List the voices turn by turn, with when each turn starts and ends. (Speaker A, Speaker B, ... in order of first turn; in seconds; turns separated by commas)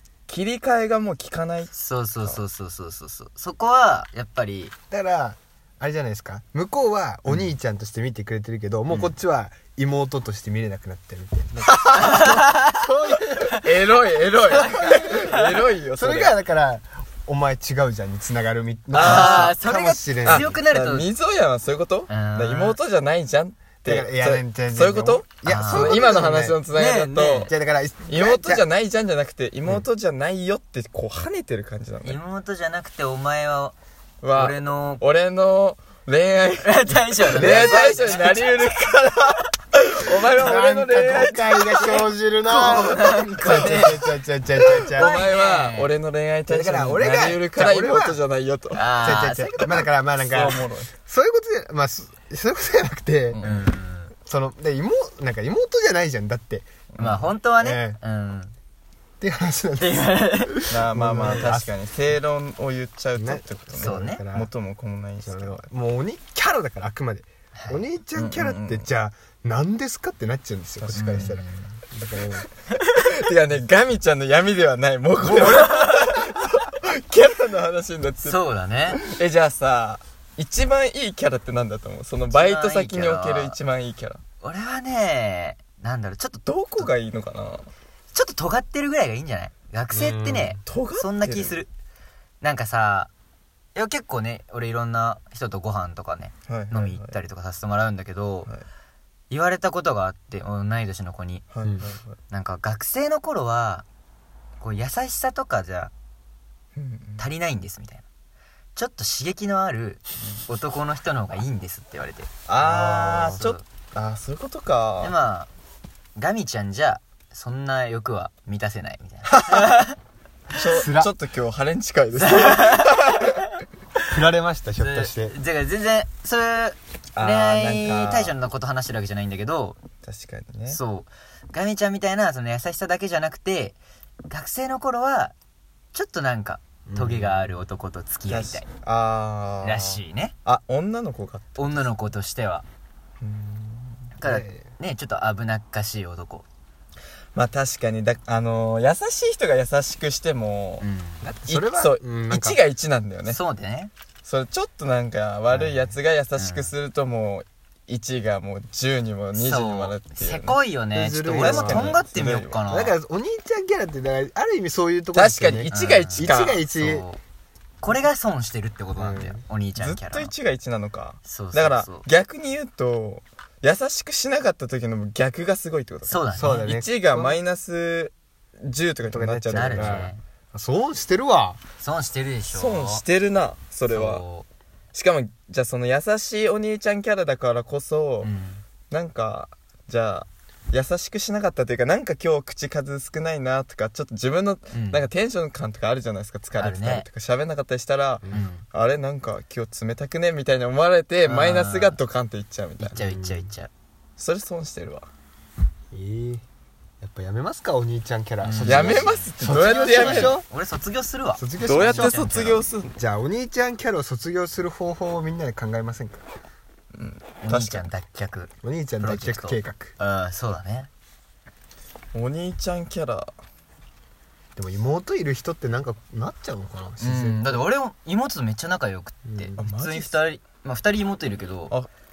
Speaker A: 0.3-2.4, Speaker B: 1.7-4.7, Speaker C: 4.9-20.6, Speaker A: 11.7-12.4, Speaker B: 12.0-12.8, Speaker A: 13.3-16.4, Speaker B: 14.5-15.6, Speaker A: 18.9-19.6, Speaker B: 18.9-21.1, Speaker A: 20.2-27.5, Speaker B: 22.1-22.8, Speaker C: 23.8-26.6, Speaker B: 25.4-26.0, Speaker B: 26.7-27.5, Speaker C: 27.5-28.6, Speaker A: 28.1-32.2, Speaker B: 32.0-33.8, Speaker A: 34.2-42.1, Speaker B: 34.3-35.0, Speaker B: 36.6-38.8, Speaker C: 37.3-38.2, Speaker C: 40.2-45.2, Speaker B: 42.5-44.0, Speaker A: 43.4-43.9, Speaker A: 44.6-48.9, Speaker B: 44.9-45.9, Speaker C: 46.5-48.2, Speaker B: 48.7-49.5, Speaker C: 49.0-53.4, Speaker A: 49.6-50.9, Speaker A: 53.3-53.7, Speaker B: 53.4-54.1, Speaker C: 54.2-56.7, Speaker A: 56.9-57.3, Speaker B: 57.0-58.5, Speaker C: 57.6-58.0, Speaker C: 59.2-61.7, Speaker B: 59.8-60.7, Speaker A: 60.7-65.6, Speaker B: 61.2-61.5, Speaker C: 63.1-64.5, Speaker B: 63.8-64.2, Speaker C: 65.2-72.5, Speaker B: 67.5-67.8, Speaker A: 68.1-68.9, Speaker A: 70.8-71.4, Speaker B: 71.0-71.7, Speaker A: 72.8-78.4, Speaker B: 78.2-79.0, Speaker A: 78.9-84.2, Speaker B: 82.3-83.5, Speaker B: 84.4-86.9, Speaker A: 86.4-87.7, Speaker B: 88.1-91.7, Speaker C: 89.9-90.6, Speaker A: 90.7-91.6, Speaker B: 92.4-93.1, Speaker B: 93.7-98.5, Speaker A: 96.5-97.2, Speaker B: 99.3-101.5, Speaker A: 101.5-102.2, Speaker C: 101.6-101.9, Speaker B: 102.3-103.8, Speaker B: 104.6-105.9, Speaker A: 106.8-107.3, Speaker B: 107.2-108.0, Speaker B: 108.7-112.3, Speaker A: 112.5-115.1, Speaker C: 112.6-113.4, Speaker B: 113.2-113.6, Speaker B: 115.0-115.5, Speaker B: 116.2-119.9, Speaker A: 120.5-123.3, Speaker C: 120.6-121.1, Speaker B: 122.2-123.4, Speaker C: 124.1-125.3, Speaker B: 124.8-129.8, Speaker A: 127.2-128.3, Speaker A: 130.0-130.8, Speaker B: 130.7-135.3, Speaker B: 135.9-138.7, Speaker C: 136.9-137.4, Speaker A: 138.3-141.9, Speaker B: 139.6-140.3, Speaker B: 141.6-142.6, Speaker A: 143.2-144.1, Speaker B: 144.2-146.5, Speaker C: 144.2-144.7, Speaker A: 147.3-150.8, Speaker B: 150.8-151.3, Speaker C: 151.2-152.6, Speaker A: 151.5-153.4, Speaker B: 153.3-153.9, Speaker A: 154.2-160.6, Speaker C: 155.5-155.9, Speaker B: 156.3-156.7, Speaker B: 159.3-162.9, Speaker C: 160.9-162.1, Speaker A: 161.2-162.6, Speaker C: 162.7-167.1, Speaker A: 165.1-166.6, Speaker B: 165.7-167.2, Speaker B: 167.8-170.3, Speaker C: 169.0-169.4, Speaker A: 169.8-180.1, Speaker B: 171.2-172.0, Speaker B: 176.1-176.7, Speaker C: 176.4-177.4, Speaker C: 179.1-181.6, Speaker B: 179.5-180.2, Speaker B: 181.8-183.0, Speaker A: 182.5-184.2, Speaker B: 183.9-184.5, Speaker A: 184.9-188.3, Speaker B: 188.2-188.6, Speaker A: 188.9-203.0, Speaker B: 194.7-195.1, Speaker B: 196.6-197.1, Speaker B: 198.3-198.7, Speaker B: 201.2-202.0, Speaker B: 202.8-203.7, Speaker C: 202.9-203.5, Speaker A: 204.2-205.1, Speaker C: 205.9-206.4, Speaker C: 207.0-210.4, Speaker B: 208.4-212.6, Speaker A: 208.6-210.4, Speaker C: 211.4-212.2, Speaker A: 211.6-212.9, Speaker C: 212.9-216.2, Speaker A: 216.9-217.9, Speaker B: 217.4-220.9, Speaker C: 218.6-219.9, Speaker A: 222.1-223.3, Speaker C: 224.6-227.6, Speaker B: 227.0-231.7, Speaker C: 229.2-229.6, Speaker A: 229.6-230.2